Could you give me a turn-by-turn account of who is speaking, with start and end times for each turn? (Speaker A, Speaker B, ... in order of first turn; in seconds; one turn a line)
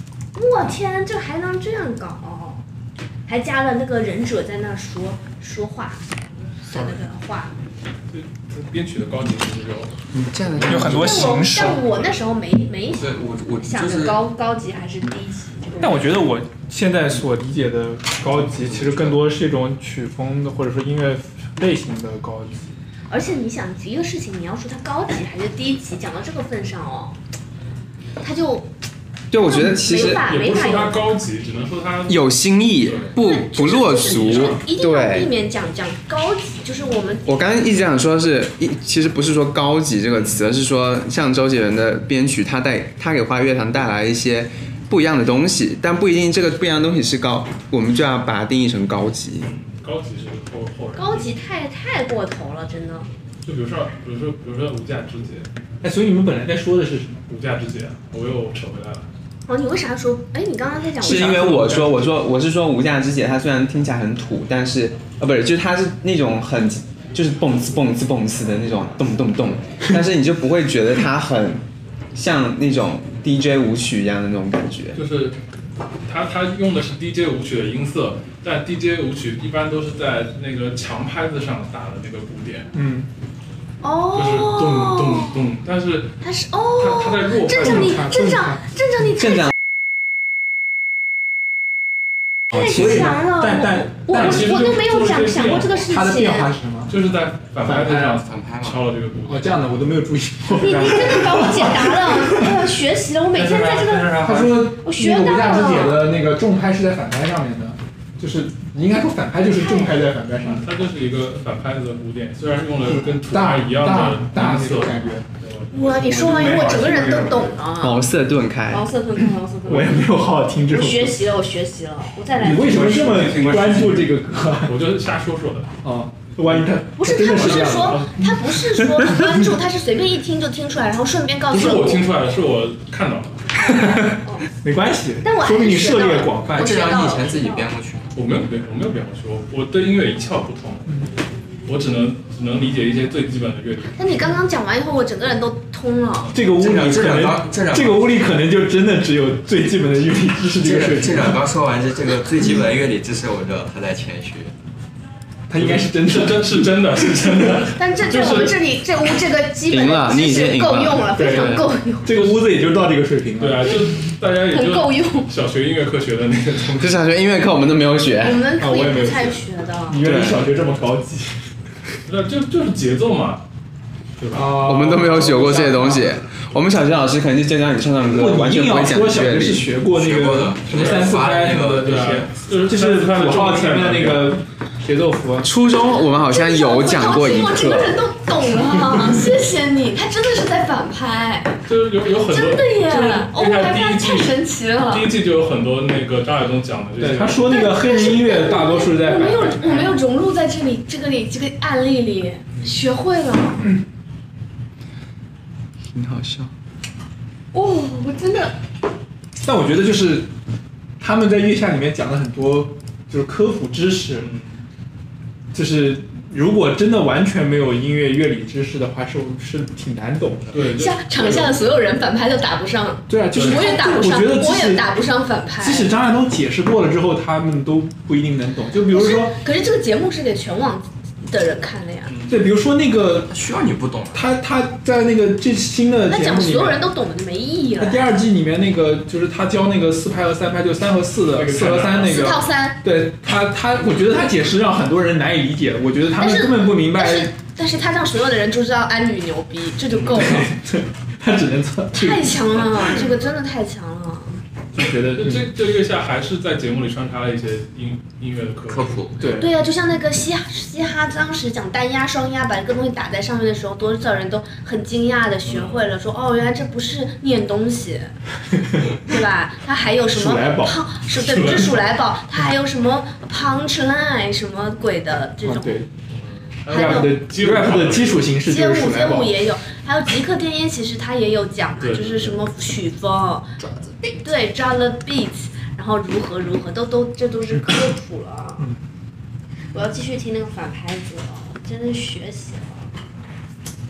Speaker A: 0.3-2.6
Speaker A: 3.3-7.5
Speaker B: 8.1-10.0
Speaker C: 10.1-11.2
Speaker B: 10.6-11.3
Speaker D: 10.6-11.8
Speaker A: 10.9-16.1
Speaker B: 11.8-12.1
Speaker E: 12.9-14.2
Speaker D: 15.8-22.7
Speaker E: 18.6-19.2
Speaker A: 23.1-27.1
Speaker A: 28.2-28.7
Speaker C: 29.3-30.2
Speaker A: 29.4-31.0
Speaker B: 30.0-33.1
Speaker C: 32.0-35.3
Speaker A: 33.2-37.5
Speaker B: 34.0-34.6
Speaker C: 37.3-49.5
Speaker B: 49.4-51.3
Speaker A: 51.0-53.1
Speaker B: 53.4-55.5
Speaker D: 55.8-57.2
Speaker B: 57.3-59.1
Speaker A: 59.5-61.5
Speaker C: 61.0-71.6
Speaker D: 61.0-62.1
Speaker C: 72.1-75.0
Speaker B: 75.0-75.4
Speaker B: 76.0-82.7
Speaker D: 82.7-83.1
Speaker A: 83.8-85.4
Speaker B: 84.1-86.2
Speaker A: 86.2-89.5
Speaker B: 86.8-88.1
Speaker D: 87.6-88.6
Speaker A: 92.5-96.5
Speaker D: 92.7-94.6
Speaker B: 94.1-95.9
Speaker D: 95.9-97.0
Speaker B: 96.9-99.6
Speaker D: 97.6-98.2
Speaker E: 98.2-98.9
Speaker D: 99.2-102.5
Speaker A: 100.5-106.1
Speaker B: 103.3-104.5
Speaker D: 104.1-110.7
Speaker A: 109.5-110.0
Speaker B: 110.4-117.1
Speaker D: 112.8-115.2
Speaker A: 115.7-118.0
Speaker D: 116.1-117.5
Speaker C: 117.8-118.8
Speaker A: 118.7-120.1
Speaker D: 119.7-121.2
Speaker A: 120.6-123.4
Speaker D: 122.4-124.8
Speaker E: 122.6-124.1
Speaker B: 124.7-125.7
Speaker D: 125.8-128.8
Speaker A: 127.0-132.0
Speaker B: 127.3-128.1
Speaker B: 131.5-133.4
Speaker D: 133.6-136.7
Speaker A: 133.6-134.5
Speaker A: 135.2-137.7
Speaker E: 136.5-138.1
Speaker B: 138.1-141.0
Speaker B: 141.7-144.0
Speaker A: 143.9-146.3
Speaker D: 146.3-151.5
Speaker E: 146.4-148.2
Speaker E: 150.6-154.5
Speaker D: 155.5-157.5
Speaker B: 155.5-158.6
Speaker A: 157.8-162.3
Speaker C: 159.7-161.6
Speaker D: 161.1-163.7
Speaker B: 163.4-167.0
Speaker A: 164.4-165.3
Speaker C: 166.8-168.4
Speaker A: 168.2-170.0
Speaker D: 168.6-171.3
Speaker C: 170.0-170.4
Speaker B: 172.1-173.4
Speaker B: 174.2-174.5
Speaker D: 174.3-176.2
Speaker C: 174.5-179.7
Speaker D: 178.1-185.5
Speaker E: 179.9-182.5
Speaker B: 180.7-184.4
Speaker C: 185.4-188.0
Speaker A: 185.9-191.6
Speaker B: 191.7-197.7
Speaker A: 192.2-195.1
Speaker D: 197.0-200.0
Speaker A: 197.5-203.7
Speaker C: 205.9-206.5
Speaker A: 207.5-208.6
Speaker D: 209.4-210.3
Speaker D: 211.0-214.3
Speaker B: 214.2-214.6
Speaker D: 215.5-220.6
Speaker B: 220.5-221.6
Speaker A: 220.6-225.9
Speaker D: 223.1-224.9
Speaker B: 223.3-223.7
Speaker D: 225.6-229.3
Speaker A: 228.9-232.2
Speaker D: 232.3-233.4
Speaker E: 233.3-234.2
Speaker D: 234.1-236.8
Speaker A: 236.1-238.1
Speaker D: 237.8-247.3
Speaker B: 241.3-242.3
Speaker A: 241.9-242.8
Speaker A: 246.2-250.5
Speaker B: 249.9-250.2
Speaker D: 250.1-252.9
Speaker A: 251.9-254.4
Speaker D: 254.8-255.5
Speaker B: 255.1-259.1
Speaker E: 258.7-259.2
Speaker D: 259.2-259.5
Speaker A: 259.4-268.1
Speaker B: 265.4-265.9
Speaker A: 268.9-275.9
Speaker D: 270.1-270.8
Speaker B: 271.1-271.8
Speaker D: 275.4-275.9
Speaker B: 276.2-278.2
Speaker A: 276.7-277.2
Speaker D: 276.7-279.3
Speaker A: 278.4-283.5
Speaker B: 281.8-282.4
Speaker D: 283.6-284.1
Speaker A: 284.2-288.7
Speaker A: 289.7-292.9